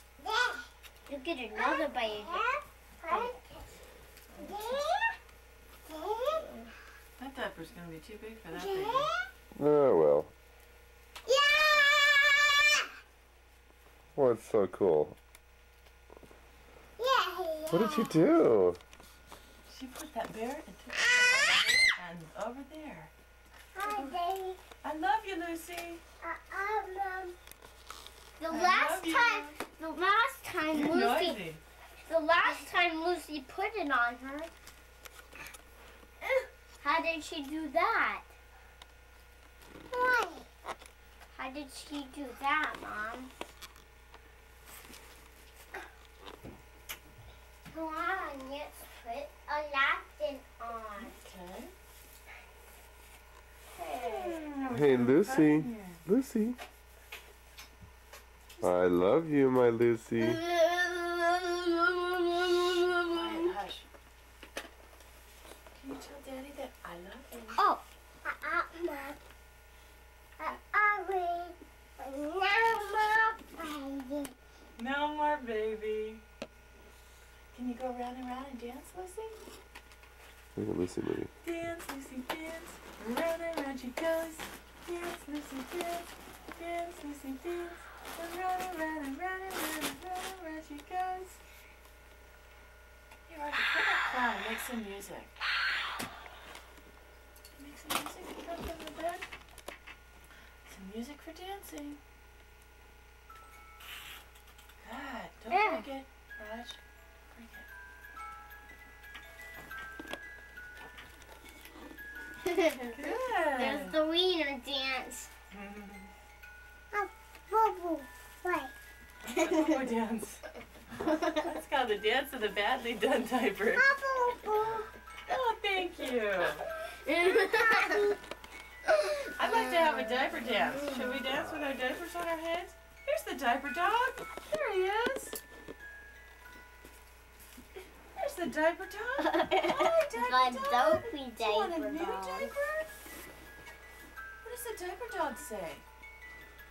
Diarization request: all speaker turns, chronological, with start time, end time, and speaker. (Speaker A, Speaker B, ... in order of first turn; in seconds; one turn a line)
Speaker A: 0.2-0.7
Speaker B: 1.1-2.4
Speaker A: 1.5-3.7
Speaker B: 4.3-4.7
Speaker A: 4.4-5.2
Speaker A: 5.8-6.7
Speaker C: 7.2-9.1
Speaker A: 8.5-9.2
Speaker D: 9.5-10.3
Speaker A: 11.2-12.9
Speaker D: 14.1-15.2
Speaker A: 17.0-18.2
Speaker D: 17.7-18.8
Speaker C: 19.7-23.1
Speaker A: 23.7-24.6
Speaker C: 24.8-26.0
Speaker A: 26.2-27.3
Speaker B: 28.4-31.4
Speaker C: 28.5-29.6
Speaker C: 30.7-31.6
Speaker B: 32.0-34.5
Speaker B: 36.8-38.3
Speaker A: 39.9-40.5
Speaker B: 41.3-43.3
Speaker B: 47.7-51.1
Speaker C: 51.0-51.7
Speaker B: 53.8-54.4
Speaker C: 53.8-56.0
Speaker D: 54.7-56.6
Speaker D: 58.6-60.4
Speaker B: 60.2-63.4
Speaker C: 63.1-63.9
Speaker C: 65.7-67.6
Speaker B: 67.5-67.8
Speaker A: 68.2-69.2
Speaker A: 70.4-74.3
Speaker C: 74.8-76.2
Speaker C: 77.5-79.4
Speaker D: 80.5-81.3
Speaker C: 81.4-91.4
Speaker C: 93.3-95.3
Speaker C: 97.5-99.2
Speaker C: 100.7-102.0
Speaker C: 104.8-106.8
Speaker B: 105.5-105.9
Speaker C: 107.3-107.7
Speaker B: 112.5-112.9
Speaker C: 112.9-114.0
Speaker B: 113.5-115.3
Speaker C: 115.5-116.1
Speaker A: 116.9-118.7
Speaker C: 119.2-120.4
Speaker C: 121.3-123.9
Speaker A: 123.7-124.9
Speaker C: 125.3-126.7
Speaker B: 127.0-128.0
Speaker A: 127.2-128.2
Speaker C: 129.3-135.4
Speaker B: 129.5-130.0
Speaker B: 130.8-131.1
Speaker C: 138.2-142.9
Speaker B: 139.2-142.5
Speaker C: 144.4-145.8